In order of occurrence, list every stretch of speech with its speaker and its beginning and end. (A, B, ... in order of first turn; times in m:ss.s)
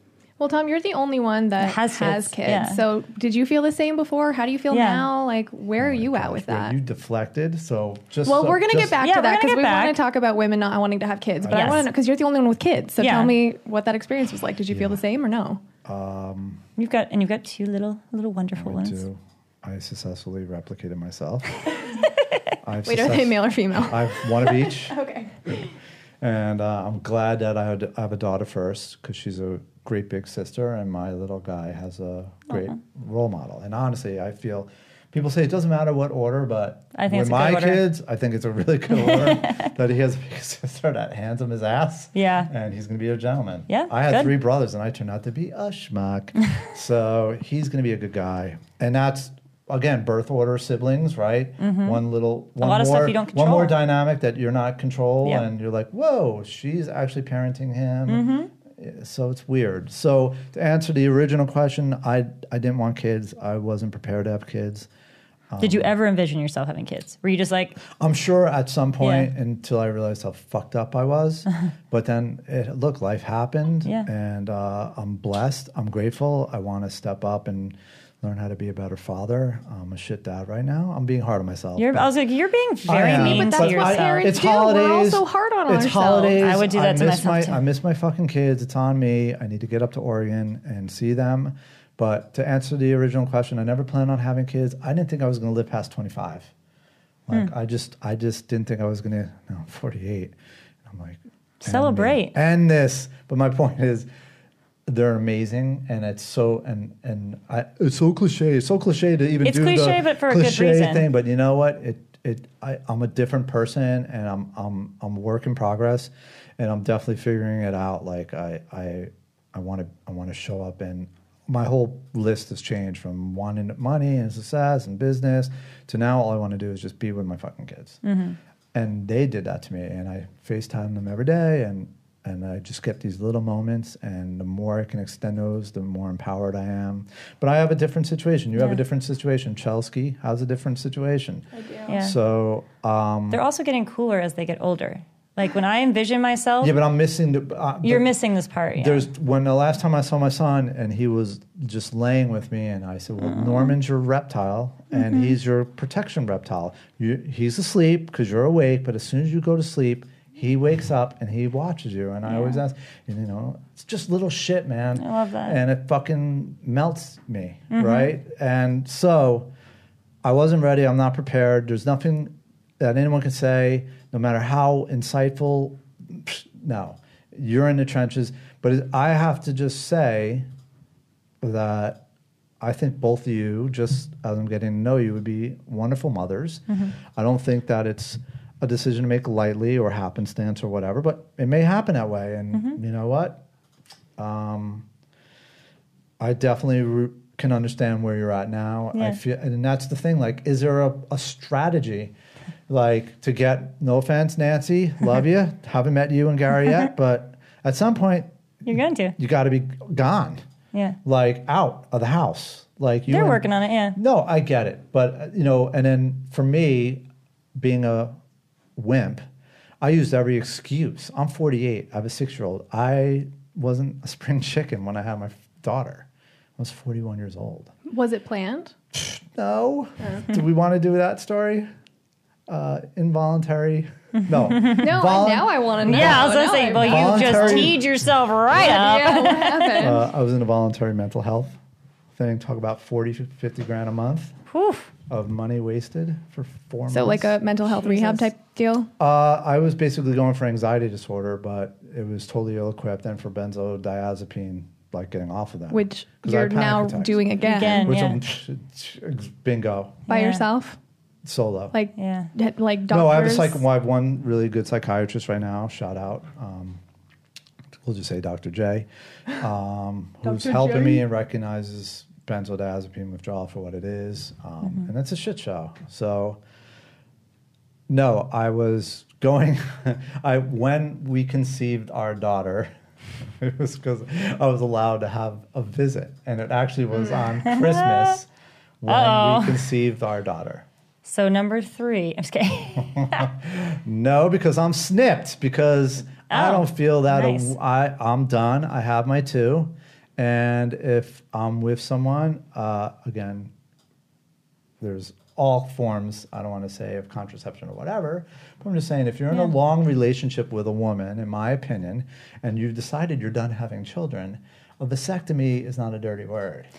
0:00.4-0:06.8 A
0:01.6-0:02.8 B
0:04.7-0:05.0 B
0:05.8-0:09.0 C
0:08.2-0:15.6 A
0:09.0-0:10.0 B
0:11.4-0:11.9 C
0:11.5-0:11.9 B
0:13.0-0:13.4 B
0:14.7-0:15.0 C
0:15.8-0:16.6 C
0:16.8-0:19.0 B
0:18.6-0:21.6 C
0:22.6-0:25.0 C
0:22.8-0:25.7 A
0:26.2-1:04.9 C
0:36.9-0:37.8 B
0:38.9-0:39.7 B
0:42.1-0:42.5 B
0:43.7-0:44.3 B
0:51.6-0:52.0 B
0:52.6-0:53.8 B
0:58.1-0:58.5 B
1:05.5-1:05.9 C
1:05.6-1:07.8 B
1:08.0-1:22.1 C
1:09.0-1:09.3 B
1:21.8-1:24.3 B
1:22.8-1:36.5 C
1:23.1-1:26.4 A
1:26.4-1:27.6 B
1:37.3-1:40.3 C
1:40.8-1:44.1 C
1:41.6-1:42.4 B
1:44.9-2:08.0 C
1:49.4-1:51.1 B
2:08.0-2:08.4 B
2:08.7-2:23.4 C
2:21.5-2:21.9 A
2:21.9-2:22.2 B
2:23.3-2:26.8 B
2:26.6-2:28.1 C
2:27.8-2:29.1 B
2:28.8-2:49.5 C
2:33.2-2:33.7 B
2:34.9-2:35.3 B
2:42.2-2:42.6 B
2:45.0-2:45.6 B
2:47.7-2:48.1 B
2:50.2-3:00.4 C
3:01.4-3:02.0 C
3:02.6-3:13.4 C
3:14.2-3:14.8 C
3:16.2-3:22.1 C
3:18.9-3:19.2 B
3:22.7-3:28.3 C
3:28.6-3:29.2 B
3:29.2-3:30.4 C
3:31.0-3:33.4 C
3:33.1-3:34.0 B
3:34.0-3:37.0 C
3:37.6-3:38.2 C
3:38.8-3:39.2 C
3:39.8-3:47.7 C
3:47.9-3:48.7 A
3:48.9-3:51.7 C
3:50.0-3:50.2 A
3:52.5-3:57.8 C
3:54.4-3:54.8 B
3:54.7-3:57.8 A
3:55.8-3:59.9 B
3:58.5-4:00.0 A
3:59.8-4:01.6 C
4:02.1-4:04.3 C
4:04.5-4:04.9 B
4:05.1-4:07.4 C
4:06.9-4:08.9 A
4:07.8-4:08.3 B
4:09.0-4:20.0 C
4:15.7-4:17.9 A
4:17.4-4:18.2 B
4:20.1-4:20.4 B
4:20.1-4:20.8 A
4:21.2-4:21.7 C
4:21.7-4:23.6 A
4:22.0-4:22.3 B
4:22.9-4:26.8 C
4:27.8-4:36.4 C
4:30.2-4:31.0 A
4:37.9-4:42.7 C
4:43.4-4:48.3 C
4:47.4-4:48.2 B
4:48.8-4:50.6 C
4:48.9-4:49.7 B
4:51.0-4:53.3 B
4:52.8-5:03.5 C
4:56.3-4:57.5 B
5:04.8-5:16.7 C